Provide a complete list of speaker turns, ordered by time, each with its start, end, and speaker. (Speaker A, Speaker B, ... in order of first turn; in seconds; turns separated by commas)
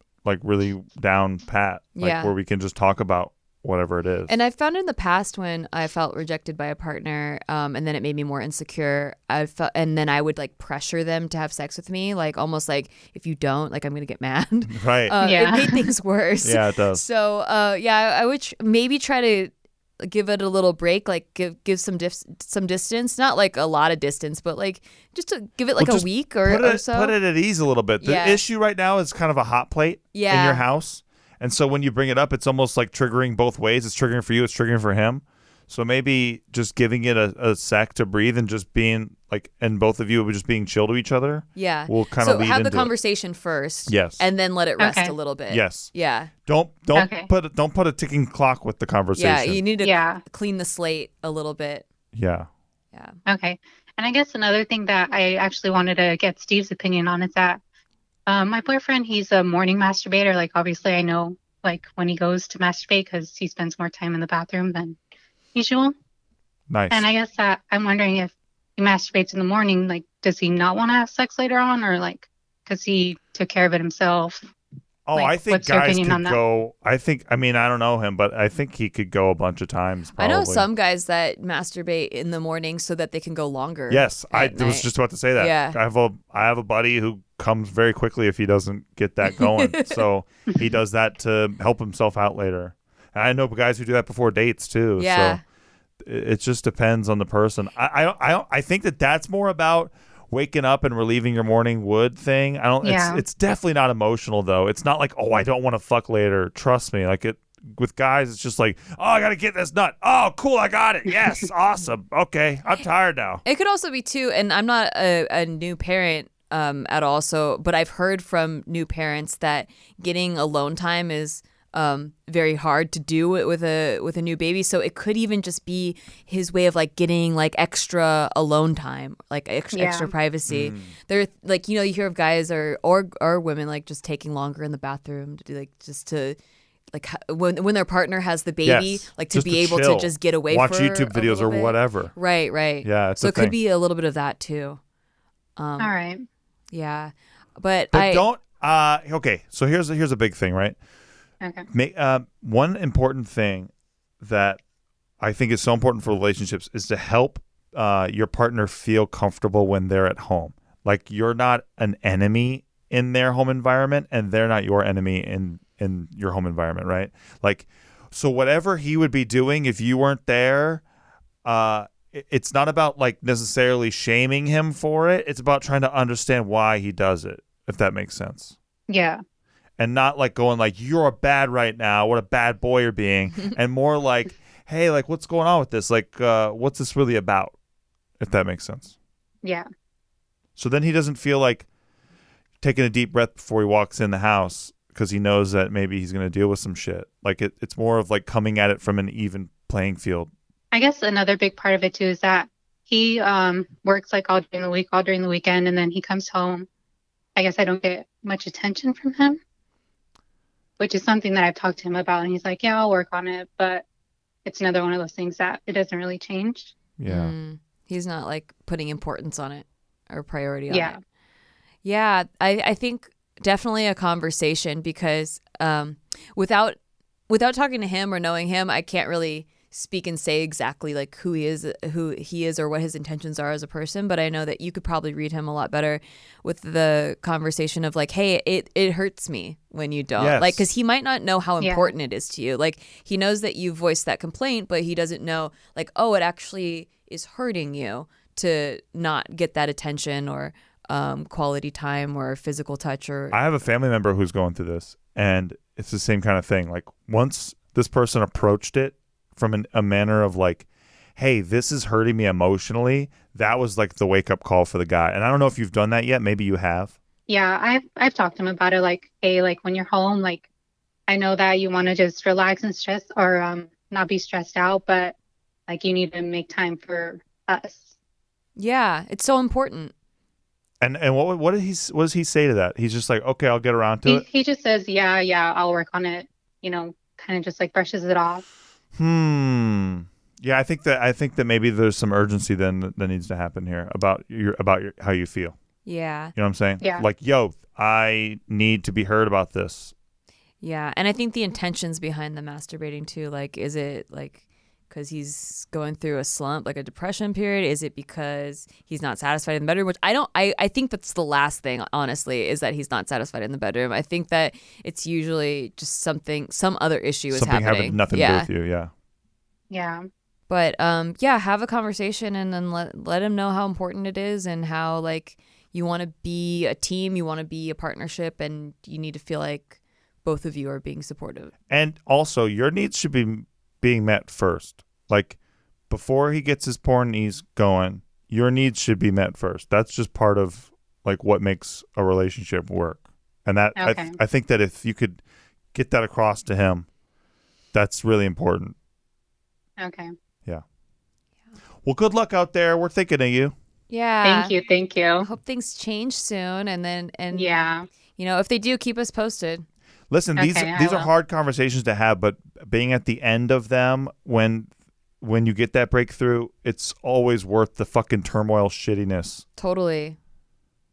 Speaker A: 0.2-4.3, Speaker B: 2.0-2.3, Speaker B: 4.3-27.1, Speaker A: 14.7-15.2, Speaker C: 15.2-15.8, Speaker A: 16.4-17.0, Speaker A: 25.8-42.9, Speaker B: 28.0-28.4, Speaker B: 30.1-30.6, Speaker B: 41.6-46.3, Speaker A: 43.9-44.2, Speaker C: 44.8-45.1, Speaker A: 45.5-45.9, Speaker A: 46.5-49.6, Speaker C: 46.9-47.3, Speaker B: 49.2-51.9, Speaker C: 49.8-50.2, Speaker A: 52.1-52.5, Speaker C: 53.3-57.6, Speaker C: 58.3-65.0, Speaker C: 65.5-66.0, Speaker A: 66.7-67.1, Speaker C: 66.9-74.5, Speaker A: 75.1-80.7, Speaker C: 75.1-76.4, Speaker B: 80.2-85.8, Speaker A: 83.9-95.4, Speaker B: 89.2-90.0, Speaker B: 95.0-95.4, Speaker A: 96.0-113.4, Speaker C: 102.8-103.2, Speaker B: 113.5-136.4, Speaker C: 129.7-130.1, Speaker A: 130.5-130.9, Speaker B: 136.9-144.8, Speaker A: 138.7-142.1, Speaker A: 142.8-143.6, Speaker B: 145.6-145.9, Speaker C: 145.8-146.2, Speaker B: 146.7-148.2, Speaker A: 147.9-150.8, Speaker A: 151.7-154.6, Speaker A: 155.2-170.8, Speaker A: 171.4-178.6, Speaker C: 178.9-179.2, Speaker A: 179.8-187.5, Speaker A: 188.2-188.9, Speaker A: 190.6-191.7, Speaker A: 192.6-200.3, Speaker C: 200.7-206.7, Speaker C: 207.4-209.4, Speaker C: 210.8-213.8, Speaker C: 214.4-216.7, Speaker A: 217.0-217.3, Speaker B: 217.1-221.0, Speaker C: 220.7-221.0, Speaker B: 221.8-226.8, Speaker B: 227.3-253.4, Speaker A: 240.2-240.7, Speaker C: 241.6-241.9, Speaker A: 253.3-260.7, Speaker A: 261.2-267.0, Speaker C: 267.3-270.5, Speaker C: 271.1-275.1, Speaker C: 275.7-277.9, Speaker B: 278.6-279.9, Speaker A: 280.8-284.2, Speaker C: 284.1-288.4, Speaker A: 288.9-295.6, Speaker B: 295.9-296.3, Speaker A: 296.4-299.9, Speaker C: 296.8-297.1, Speaker B: 300.6-318.5, Speaker A: 317.3-318.9, Speaker C: 319.7-320.1, Speaker B: 320.5-331.5, Speaker A: 331.7-335.4, Speaker A: 335.9-345.2, Speaker C: 343.8-344.2, Speaker A: 345.7-346.9, Speaker A: 347.7-348.8, Speaker C: 349.8-350.1, Speaker A: 351.9-353.6, Speaker B: 353.9-354.5, Speaker C: 354.2-355.3, Speaker B: 355.2-357.5, Speaker C: 357.3-357.9, Speaker B: 358.2-359.6, Speaker A: 360.1-364.7, Speaker C: 360.4-361.1, Speaker A: 365.2-369.4, Speaker B: 369.6-370.2